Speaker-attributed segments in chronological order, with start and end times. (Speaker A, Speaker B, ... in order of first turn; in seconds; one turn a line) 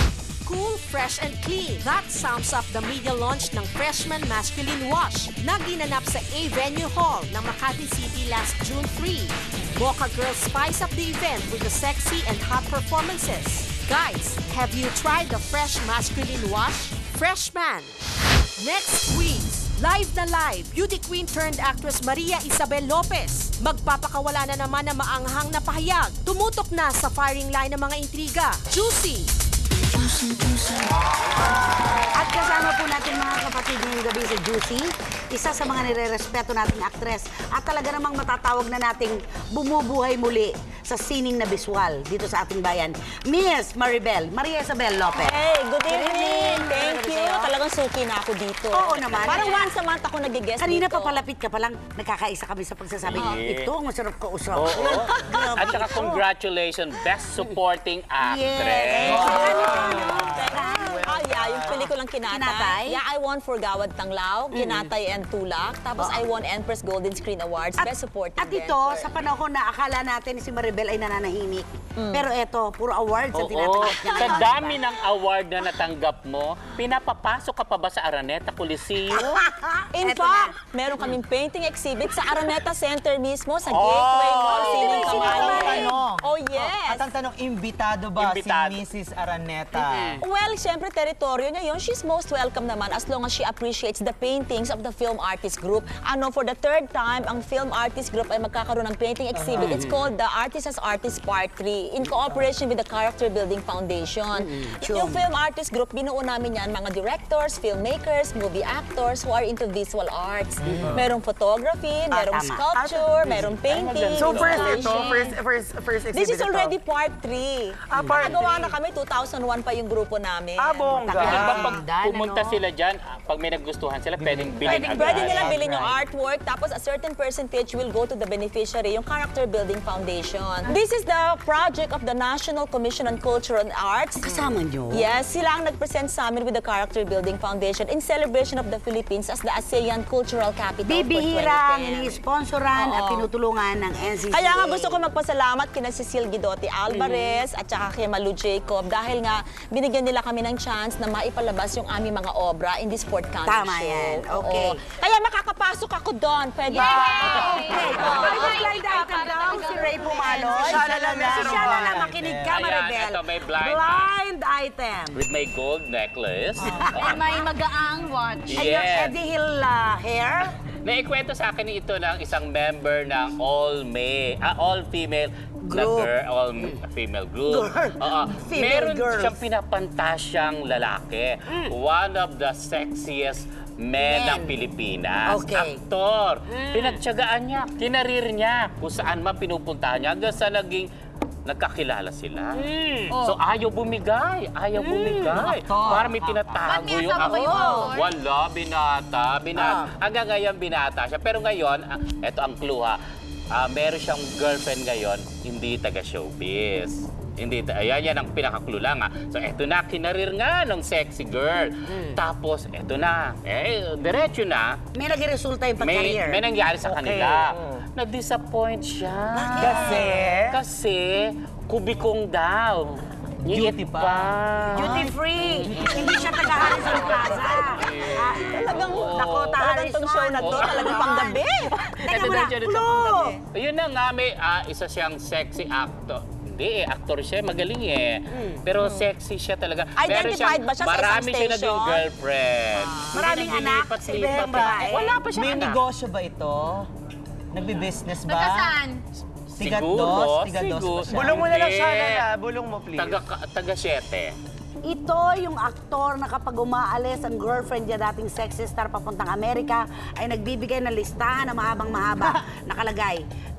Speaker A: 0.4-17.9
Speaker A: 18.6-29.3
Speaker B: 32.2-47.5
Speaker C: 45.1-51.2
Speaker B: 48.7-49.8
Speaker B: 50.6-56.2
Speaker D: 53.0-53.7
Speaker D: 54.5-59.6
Speaker B: 58.2-61.1
Speaker E: 59.0-60.8
Speaker C: 59.0-69.1
Speaker F: 60.3-61.6
Speaker B: 61.7-63.0
Speaker B: 64.5-64.9
Speaker B: 66.0-66.2
Speaker B: 67.8-74.8
Speaker C: 72.0-72.3
Speaker D: 73.3-79.4
Speaker B: 79.1-80.5
Speaker C: 79.9-87.1
Speaker D: 83.7-85.4
Speaker B: 84.6-85.9
Speaker E: 84.8-90.2
Speaker D: 88.2-88.8
Speaker C: 90.2-115.2
Speaker B: 99.6-99.9
Speaker B: 104.3-105.2
Speaker B: 112.1-113.5
Speaker D: 114.1-114.7
Speaker F: 114.1-116.8
Speaker C: 116.1-121.0
Speaker F: 117.9-118.8
Speaker B: 117.9-118.4
Speaker F: 120.6-121.7
Speaker B: 120.9-122.6
Speaker D: 121.2-125.5
Speaker E: 124.2-126.0
Speaker C: 124.7-134.3
Speaker B: 125.3-125.6
Speaker B: 134.2-135.1
Speaker C: 134.9-142.2
Speaker B: 140.8-145.0
Speaker C: 142.7-143.3
Speaker C: 144.3-158.2
Speaker B: 146.9-147.4
Speaker B: 153.4-154.8
Speaker G: 156.7-160.8
Speaker F: 156.9-157.5
Speaker B: 157.4-165.2
Speaker E: 158.2-158.7
Speaker E: 160.3-160.6
Speaker F: 160.5-162.3
Speaker E: 161.1-162.4
Speaker D: 162.5-164.1
Speaker D: 165.1-167.4
Speaker B: 166.7-167.2
Speaker G: 166.9-168.6
Speaker D: 168.5-169.1
Speaker B: 168.5-170.5
Speaker D: 170.8-190.9
Speaker B: 175.7-176.8
Speaker B: 177.4-179.4
Speaker B: 184.0-184.5
Speaker B: 185.2-185.8
Speaker B: 186.5-186.9
Speaker D: 191.4-203.0
Speaker B: 194.7-195.4
Speaker E: 195.3-197.6
Speaker G: 196.7-198.1
Speaker B: 197.2-197.9
Speaker B: 199.5-199.9
Speaker D: 203.5-214.8
Speaker B: 214.9-216.4
Speaker D: 215.8-225.0
Speaker F: 216.8-217.5
Speaker B: 219.3-220.2
Speaker F: 219.6-220.6
Speaker E: 223.4-227.2
Speaker B: 224.7-233.4
Speaker D: 227.5-229.6
Speaker C: 228.4-231.7
Speaker D: 230.4-245.8
Speaker B: 238.3-238.6
Speaker C: 240.0-242.1
Speaker B: 243.1-245.2
Speaker E: 244.2-246.9
Speaker E: 247.5-248.8
Speaker G: 248.2-249.0
Speaker E: 249.6-251.4
Speaker D: 249.6-252.3
Speaker F: 251.1-253.2
Speaker D: 252.9-254.3
Speaker B: 254.8-263.2